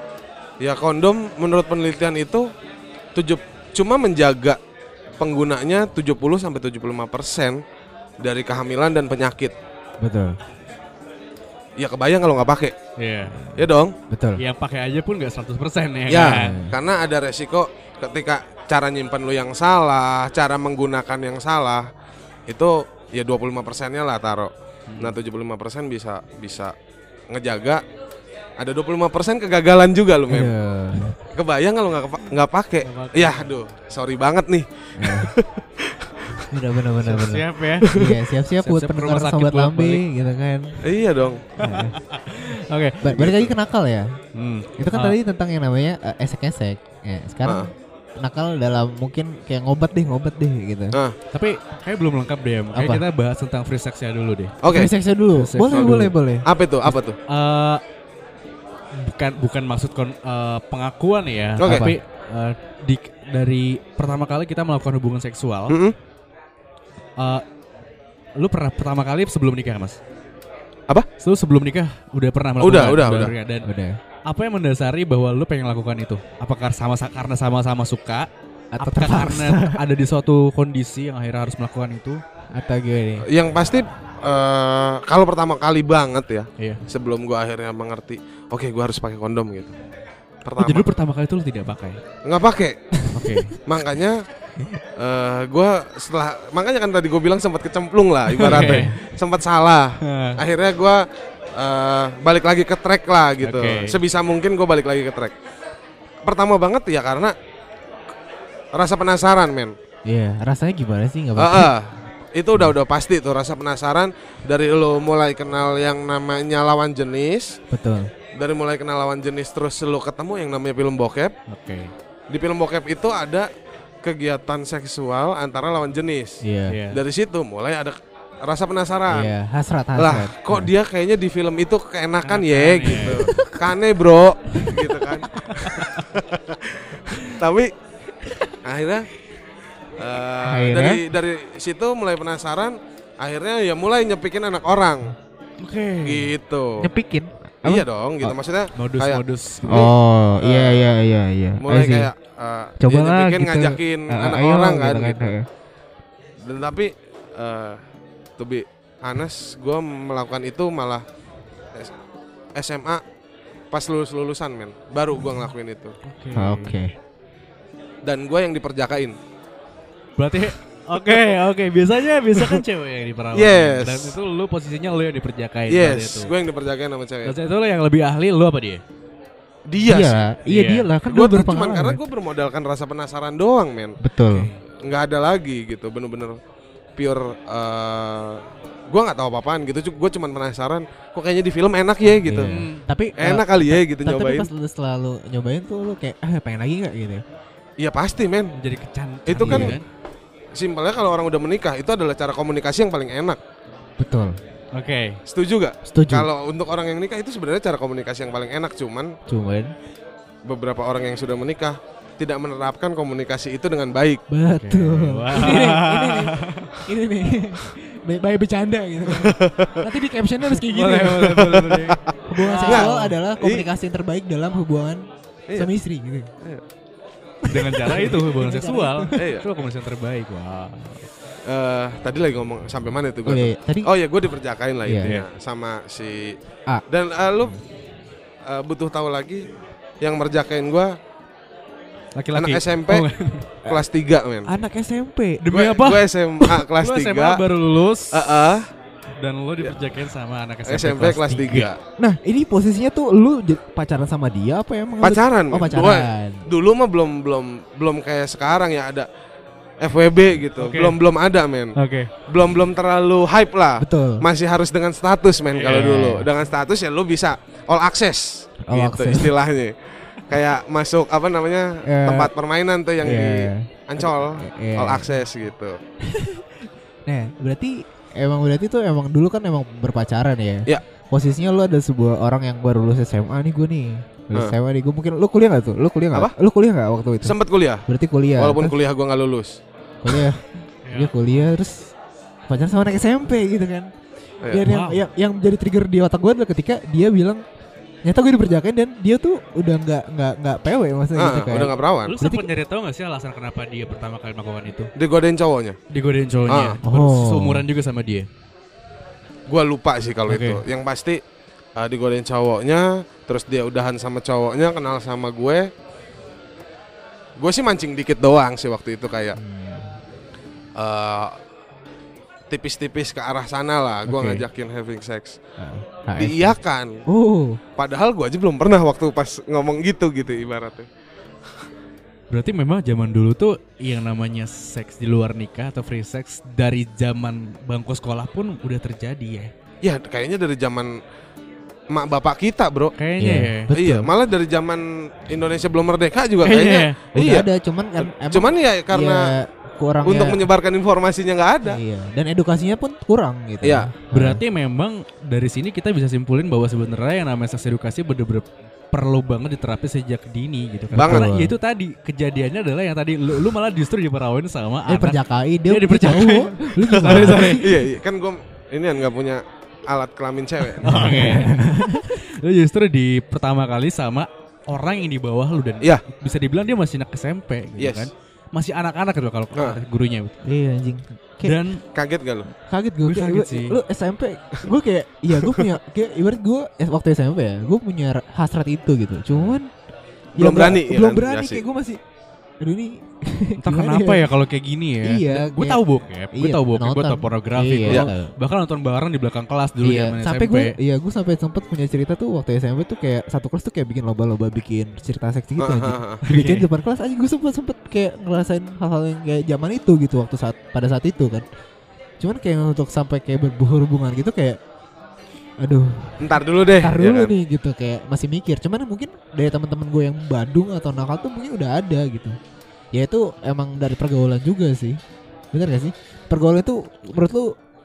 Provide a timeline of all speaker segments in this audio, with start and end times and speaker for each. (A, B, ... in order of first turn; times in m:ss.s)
0:00.6-0:02.5 A
0:03.2-0:04.6 A
0:05.2-0:07.6 A
0:08.2-0:09.5 A
0:10.0-0:10.3 B
0:11.8-0:12.7 A
0:13.0-0:13.4 C
0:13.6-0:13.9 A
0:14.1-0:14.4 B
0:14.4-0:16.6 C
0:16.1-0:21.9 A
0:16.2-0:16.8 B
0:22.5-0:26.7 A
0:24.9-0:25.2 C
0:27.3-0:27.8 A
0:28.6-0:30.5 A
0:30.3-0:31.1 B
0:31.3-0:36.4 A
0:32.8-0:33.5 C
0:35.0-0:35.3 B
0:36.5-0:40.8 B
0:37.0-0:37.9 C
0:37.9-0:38.2 A
0:38.6-0:40.0 C
0:40.8-0:41.4 A
0:41.6-0:42.0 B
0:41.6-0:43.0 C
0:43.0-0:44.1 B
0:43.1-0:43.5 A
0:44.3-0:45.1 C
0:44.8-0:51.0 B
0:47.4-0:47.7 A
0:51.3-0:54.6 C
0:52.7-0:53.0 B
0:54.6-0:54.9 A
0:54.7-0:56.9 B
0:55.4-0:56.1 C
0:55.7-0:57.2 A
0:57.3-0:57.8 C
0:59.0-1:05.8 C
1:01.6-1:01.9 A
1:01.6-1:02.0 B
1:05.7-1:05.9 A
1:07.2-1:07.4 C
1:08.4-1:10.0 C
1:11.2-1:13.7 C
1:12.6-1:13.3 A
1:13.6-1:14.0 B
1:14.3-1:18.3 C
1:18.7-1:19.8 B
1:18.8-1:22.2 C
1:22.5-1:23.2 B
1:23.3-1:29.7 A
1:30.4-1:30.9 A
1:30.6-1:32.0 C
1:32.2-1:32.8 A
1:33.1-1:33.5 C
1:33.6-1:34.2 A
1:35.0-1:41.0 A
1:38.4-1:38.9 C
1:38.4-1:38.9 B
1:40.0-1:40.4 C
1:41.6-1:45.3 A
1:43.4-1:44.0 C
1:46.2-1:47.3 A
1:48.7-1:49.7 A
1:50.1-1:51.7 B
1:51.4-1:57.6 A
1:57.7-1:58.1 B
1:58.4-2:01.3 A
2:01.5-2:01.9 C
2:02.3-2:03.5 A
2:04.0-2:09.3 A
2:06.4-2:06.8 B
2:06.7-2:07.0 C
2:09.1-2:10.7 B
2:10.0-2:17.7 A
2:12.2-2:13.2 C
2:12.9-2:13.7 B
2:14.6-2:15.8 B
2:18.6-2:19.1 A
2:20.0-2:25.1 A
2:20.4-2:21.0 B
2:25.6-2:26.3 C
2:26.0-2:26.9 A
2:26.8-2:28.4 B
2:27.6-2:29.9 A
2:28.7-2:29.8 C
2:29.7-2:32.1 B
2:30.4-2:30.9 A
2:31.6-2:35.3 A
2:32.8-2:35.4 B
2:36.4-2:37.8 A
2:38.4-2:41.0 A
2:42.6-2:43.0 A
2:43.7-2:45.9 A
2:46.0-2:46.8 C
2:46.3-2:46.9 B
2:48.0-2:49.2 A
2:50.2-2:56.3 C
2:53.3-2:54.2 A
2:55.7-2:57.3 A
2:57.2-2:58.8 C
2:59.7-3:00.2 A
2:59.8-3:02.0 B
3:00.4-3:00.9 C
3:01.0-3:04.0 A
3:04.0-3:04.5 B
3:04.3-3:04.6 C
3:04.8-3:06.4 A
3:07.0-3:12.5 A
3:12.2-3:17.2 B
3:12.3-3:12.8 C
3:13.2-3:14.5 A
3:17.8-3:18.5 A
3:18.6-3:19.8 C
3:19.3-3:19.8 A
3:19.4-3:19.8 B
3:20.6-3:23.4 A
3:24.0-3:24.4 B
3:24.7-3:25.2 C
3:25.3-3:29.1 A
3:25.9-3:26.3 B
3:29.3-3:29.7 B
3:30.5-3:34.2 A
3:34.3-3:41.5 B
3:34.5-3:36.7 C
3:39.1-3:39.9 A
3:40.7-3:43.1 C
3:41.4-3:42.0 A
3:42.3-3:45.0 B
3:42.6-3:43.7 A
3:45.6-3:46.3 B
3:47.5-3:51.1 C
3:47.5-3:49.2 B
3:49.2-3:49.4 A
3:51.5-3:56.4 A
3:53.2-3:53.9 B
3:54.8-3:55.1 B
3:56.9-3:57.6 A
3:58.5-3:59.4 A
4:00.0-4:00.9 A
4:02.2-4:03.5 C
4:02.3-4:03.0 A
4:03.6-4:04.5 A
4:04.4-4:05.4 B
4:05.4-4:08.3 C
4:05.5-4:07.4 A
4:08.1-4:08.6 A
4:09.2-4:11.7 C
4:10.6-4:11.8 A
4:12.0-4:16.4 B
4:15.0-4:19.1 A
4:19.8-4:21.7 A
4:20.6-4:20.9 C
4:21.8-4:22.1 C
4:22.3-4:35.8 A
4:23.8-4:24.2 B
4:25.6-4:26.0 C
4:25.7-4:26.3 B
4:28.7-4:29.3 B
4:31.8-4:32.3 B
4:33.0-4:35.1 B
4:36.1-4:36.4 B
4:37.1-4:47.4 B
4:47.2-4:47.8 A
4:47.9-4:48.7 B
4:48.4-4:49.6 A
4:50.0-4:51.9 B
4:50.1-4:50.3 A
4:50.8-4:51.1 C
4:52.5-4:53.9 B
4:54.5-4:57.4 B
4:54.6-4:55.0 C
4:58.0-5:02.5 B
5:01.2-5:02.1 A
5:02.0-5:04.9 C
5:05.0-5:05.8 A
5:05.9-5:08.3 C
5:06.5-5:06.8 A
5:06.8-5:07.6 B
5:09.5-5:11.2 A
5:10.3-5:10.6 C
5:11.8-5:15.7 A
5:17.4-5:19.4 A
5:19.4-5:20.0 B
5:20.8-5:21.4 A
5:22.5-5:25.4 A
5:24.0-5:24.4 C
5:25.6-5:26.6 B
5:26.2-5:27.0 A
5:27.1-5:27.6 B
5:27.8-5:30.9 A
5:32.3-5:39.5 C
5:39.8-5:41.0 A
5:41.9-5:42.9 A
5:43.0-5:43.7 C
5:43.2-5:44.1 B
5:43.7-5:47.5 A
5:46.4-5:47.0 C
5:47.1-5:50.4 B
5:48.0-5:49.3 A
5:50.0-5:51.8 A
5:51.6-5:54.4 B
5:53.6-5:53.9 A
5:54.1-6:07.7 C
6:00.9-6:01.6 B
6:01.0-6:01.3 A
6:04.9-6:07.8 B
6:06.9-6:11.2 A
6:10.8-6:20.3 C
6:10.8-6:12.2 B
6:17.8-6:18.1 A
6:20.4-6:21.6 B
6:21.4-6:21.8 C
6:21.9-6:22.5 A
6:22.7-6:29.7 B
6:23.0-6:23.8 C
6:25.4-6:25.7 A
6:30.4-6:31.6 A
6:30.4-6:32.0 B
6:32.6-6:34.3 B
6:33.6-6:40.7 C
6:35.0-6:35.8 B
6:36.3-6:38.3 B
6:39.8-6:51.4 B
6:45.6-6:46.2 A
6:46.3-6:46.6 C
6:52.2-6:54.6 B
6:55.6-7:02.4 B
6:56.2-6:57.3 A
7:02.9-7:05.0 B
7:05.5-7:07.5 B